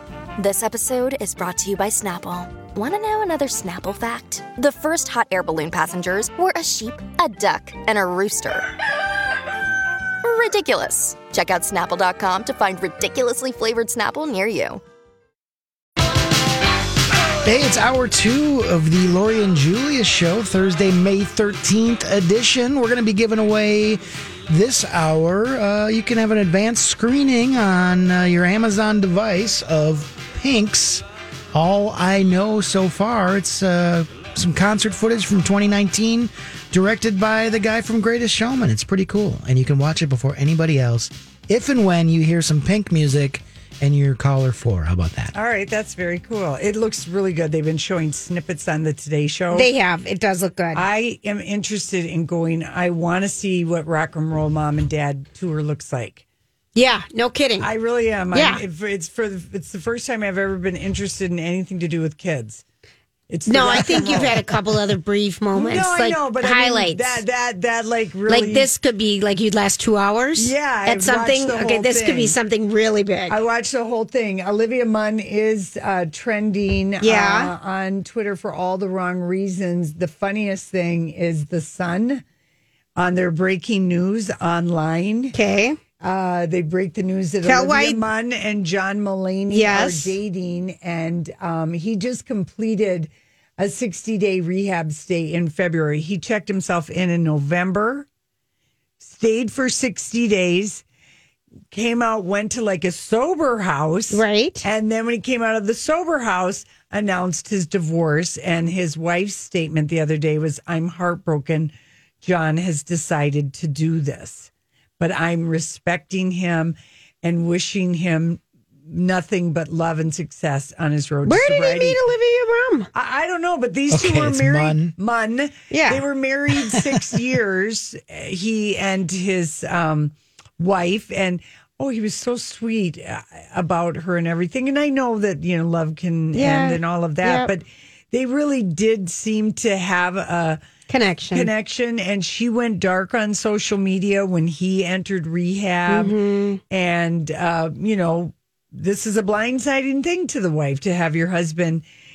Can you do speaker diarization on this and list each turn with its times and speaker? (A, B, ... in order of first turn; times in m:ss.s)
0:00.4-0:08.7 A
0:10.2-0:14.8 A
0:17.4-0:45.3 B
0:45.3-0:49.7 C
0:49.5-0:50.8 D
0:50.7-0:56.2 C
0:56.7-0:57.7 D
0:57.6-1:02.6 C
0:58.3-0:58.6 D
1:03.3-1:04.4 C
1:03.5-1:07.2 D
1:05.5-1:08.7 C
1:08.3-1:13.4 D
1:10.4-1:12.4 C
1:13.3-1:22.2 C
1:17.0-1:17.5 D
1:23.0-1:25.3 C
1:25.3-1:25.8 D
1:26.0-1:38.1 C
1:27.4-1:28.0 D
1:29.5-1:30.1 D
1:39.0-1:40.8 C
1:41.7-1:51.7 C
1:44.1-1:44.6 D
1:52.2-2:02.0 C
2:01.2-2:02.9 D
2:02.9-2:20.6 C
2:03.9-2:04.9 B
2:05.7-2:06.0 D
2:06.6-2:07.2 B
2:16.3-2:17.5 D
2:20.9-2:21.5 D
2:21.3-2:26.1 C
2:25.9-2:26.6 D
2:26.7-2:31.8 C